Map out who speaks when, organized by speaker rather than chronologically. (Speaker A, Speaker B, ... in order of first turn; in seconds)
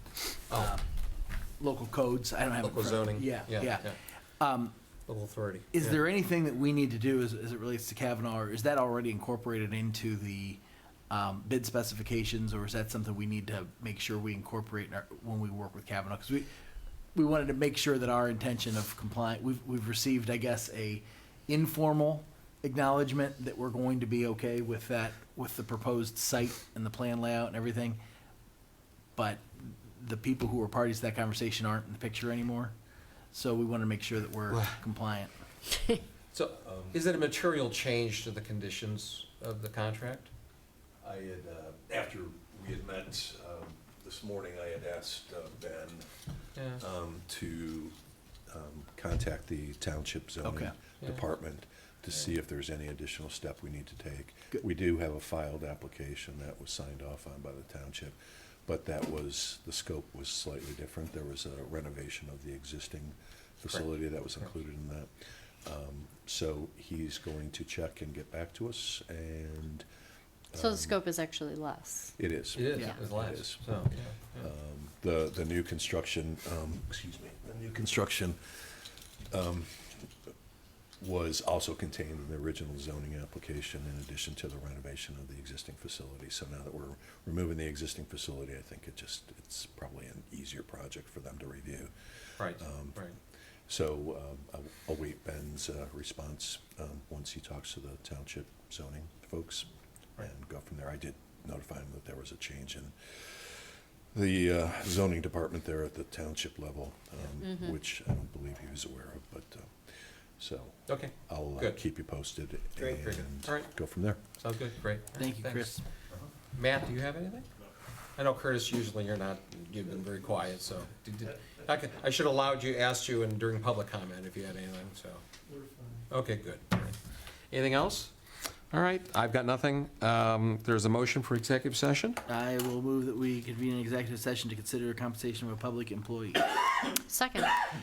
Speaker A: 0.5-0.8, 1.6-4.7, 5.7-16.5, 17.1-28.0, 29.1-32.7, 33.3-35.3, 50.4-50.7, 115.2-115.8, 132.3-136.6
Speaker B: 2.6-4.0, 5.1-6.0, 36.3-40.3, 46.5-46.8, 63.7-64.5, 72.5-74.5, 92.4-93.1, 110.9-111.8, 112.8-113.7, 114.4-115.8, 116.5-117.5, 118.2-125.2, 126.1-127.0, 127.5-128.1, 128.7-132.2
Speaker C: 36.6-37.0, 41.0-47.9, 48.5-69.8, 70.5-71.0, 72.2-78.7, 79.3-80.1, 81.0-93.0, 93.7-114.2
Speaker D: 70.5-72.2, 107.4-107.7, 137.1-137.5